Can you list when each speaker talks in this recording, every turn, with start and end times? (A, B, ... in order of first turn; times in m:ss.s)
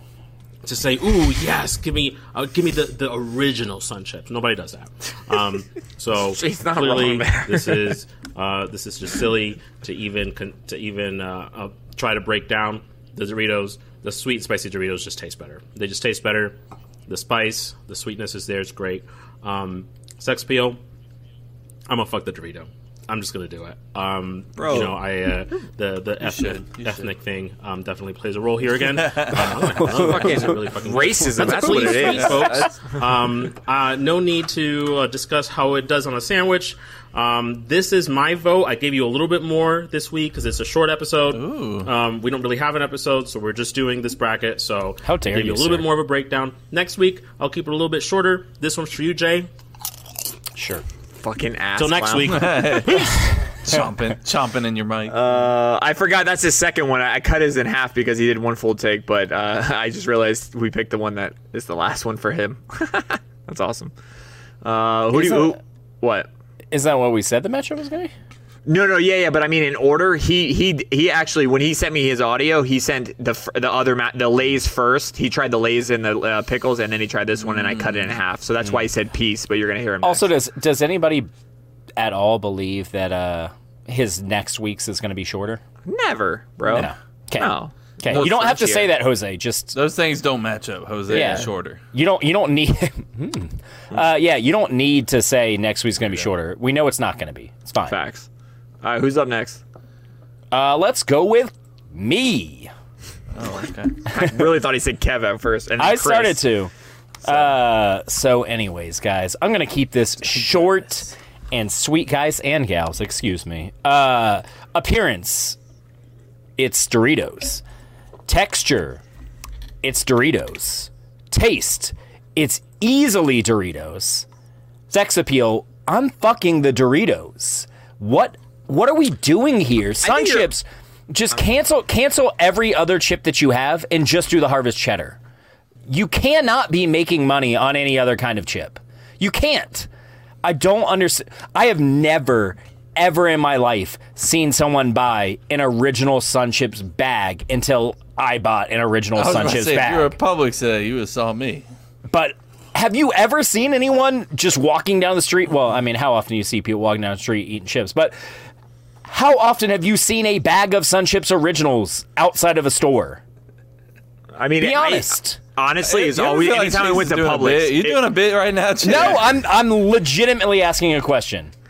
0:00.6-0:16.6 A
0:06.1-0:08.0 B
0:17.1-0:20.8 A
0:21.9-0:49.5 A
0:24.6-0:25.0 B
0:26.2-0:27.1 C
0:29.0-0:29.4 C
0:29.9-0:32.7 B
0:30.0-0:30.5 D
0:31.4-0:32.3 D
0:31.9-0:32.8 C
0:41.3-0:41.9 C
0:45.0-0:45.9 D
0:50.6-0:50.8 D
0:51.2-0:52.5 B
0:51.8-0:53.2 A
0:52.2-0:55.2 C
0:55.1-1:03.9 B
1:04.6-1:06.3 B
1:05.1-1:05.6 D
1:06.7-1:08.1 D
1:08.6-1:20.3 B
1:17.4-1:18.1 C
1:20.0-1:21.3 D
1:22.0-1:25.6 D
1:25.8-1:29.0 B
1:26.7-1:29.8 D
1:29.7-1:31.8 C
1:31.1-1:38.0 D
1:31.1-1:31.4 B
1:36.0-1:36.3 C
1:37.8-1:38.3 B
1:38.8-1:39.6 B
1:40.5-1:42.7 D
1:43.3-1:43.9 C
1:44.1-1:46.4 B
1:45.8-1:46.7 D
1:47.2-1:55.6 D
1:50.3-1:50.8 C
1:56.6-1:57.6 D
1:58.3-1:59.0 D
1:59.8-2:04.2 D
2:04.9-2:15.2 D
2:10.0-2:10.5 B
2:15.9-2:19.9 D
2:20.4-2:30.1 D
2:29.2-2:31.6 C
2:32.1-2:38.1 D
2:39.0-2:43.2 D
2:44.3-2:48.0 B
2:44.6-2:45.4 D
2:45.8-2:49.4 C
2:48.8-2:51.5 D